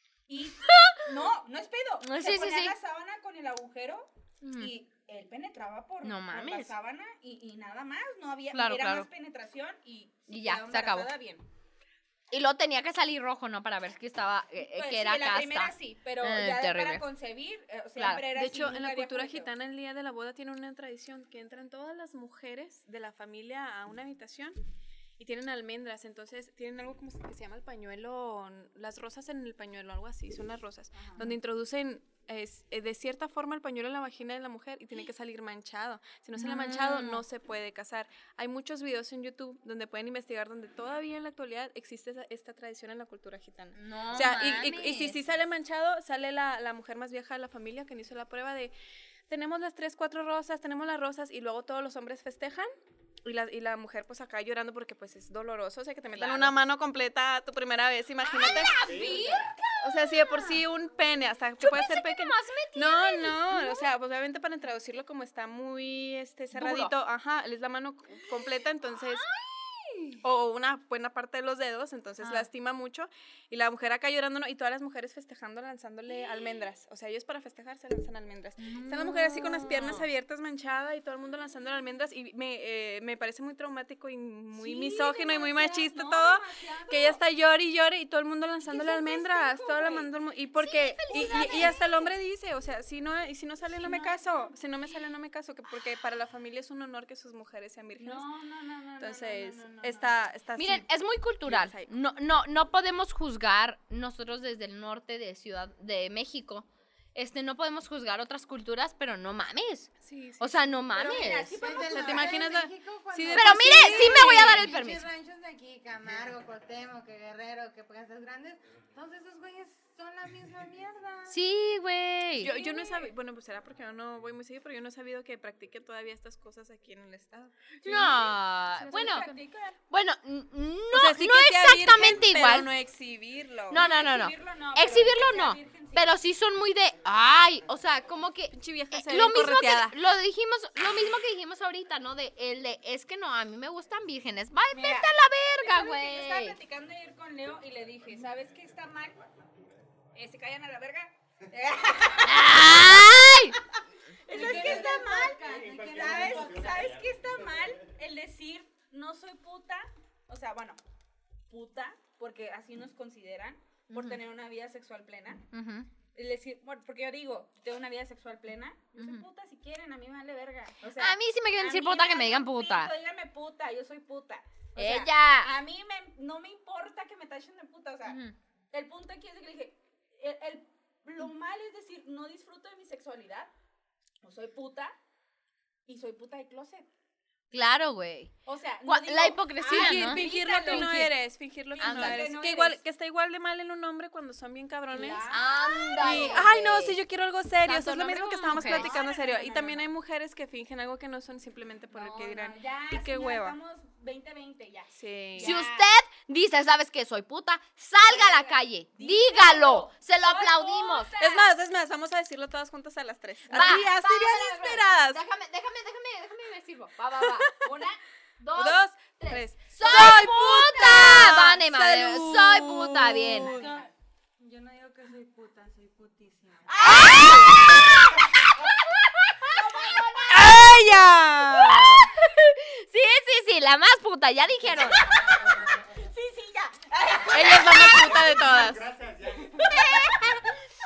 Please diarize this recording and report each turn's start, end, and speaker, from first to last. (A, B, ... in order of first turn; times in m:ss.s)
0:00.3-0:11.4 A
0:00.6-0:01.0 B
0:02.0-0:02.7 B
0:04.4-0:04.7 B
0:06.0-0:06.7 B
0:08.5-0:09.1 B
0:10.3-0:11.1 B
0:12.3-0:17.0 B
0:14.7-0:19.5 A
0:18.0-0:18.3 B
0:18.3-0:24.6 C
0:25.2-0:48.7 C
0:30.9-0:31.3 A
0:36.4-0:37.2 B
0:43.8-0:45.2 B
0:49.3-0:52.7 C
0:53.2-0:59.1 C
0:56.1-0:56.5 B
0:58.2-1:00.6 B
0:58.7-0:59.4 D
0:59.8-1:09.2 C
1:01.6-1:03.9 B
1:06.5-1:06.9 B
1:08.8-1:10.2 B
1:10.2-1:38.3 C
1:12.2-1:12.5 B
1:18.6-1:20.1 B
1:24.6-1:27.2 A
1:28.6-1:30.1 A
1:30.6-1:32.1 B
1:31.1-1:32.0 A
1:33.7-1:34.5 A
1:38.0-1:40.2 A
1:39.0-1:40.9 C
1:40.6-1:51.6 B
1:41.4-1:41.9 C
1:50.0-1:50.7 C
1:50.9-1:52.6 A
1:51.5-2:01.4 E
1:51.9-1:54.7 C
1:53.3-1:55.1 B
2:01.3-2:02.5 B
2:02.4-2:08.1 C
2:02.4-2:03.1 A
2:07.8-2:09.8 A
2:07.8-2:09.3 B
2:08.9-2:09.4 C
2:09.9-2:12.7 B
2:10.9-2:13.8 C
2:13.7-2:26.6 B
2:13.7-2:16.1 A
2:18.5-2:20.0 C
2:24.7-2:29.4 A
2:29.4-2:29.8 D
2:30.1-2:32.7 A
2:32.2-2:33.6 B
2:34.2-2:40.8 A
2:34.3-2:36.9 E
2:34.5-2:37.8 D
2:41.5-2:45.4 A
2:43.9-2:44.2 B
2:45.5-2:45.9 B
2:46.1-2:58.2 A
2:49.0-2:49.2 B
2:51.0-2:52.9 B
2:54.8-2:55.5 B
2:58.0-2:58.3 B
2:58.7-3:03.5 A
3:04.2-3:05.0 A
3:05.8-3:06.9 A
3:07.5-3:08.3 B
3:08.4-3:10.9 A
3:08.8-3:11.1 B
3:09.6-3:15.3 C
3:11.8-3:12.8 A
3:11.8-3:12.3 B
3:14.9-3:16.5 A
3:15.2-3:17.0 B
3:16.0-3:23.6 C
3:17.6-3:18.9 B
3:18.6-3:19.9 A
3:21.9-3:25.8 A
3:25.0-3:25.6 C
3:25.4-3:31.1 B
3:28.0-3:31.5 A
3:31.2-3:35.2 C
3:33.5-3:34.0 A
3:33.5-3:37.5 B
3:37.2-3:37.7 C
3:37.6-3:38.0 A
3:38.4-3:43.6 B
3:38.5-3:43.7 C
3:43.4-3:43.9 A
3:43.6-3:43.8 E
3:44.4-3:47.0 E
3:46.7-3:47.9 A
3:46.8-3:49.2 B
3:46.9-3:47.8 C
3:49.4-3:50.6 A
3:50.3-3:55.0 B
3:50.3-3:52.1 C
3:54.7-3:58.3 A
3:55.5-3:55.8 D
3:57.3-3:58.8 C
3:58.2-4:00.4 D
3:59.6-4:00.5 B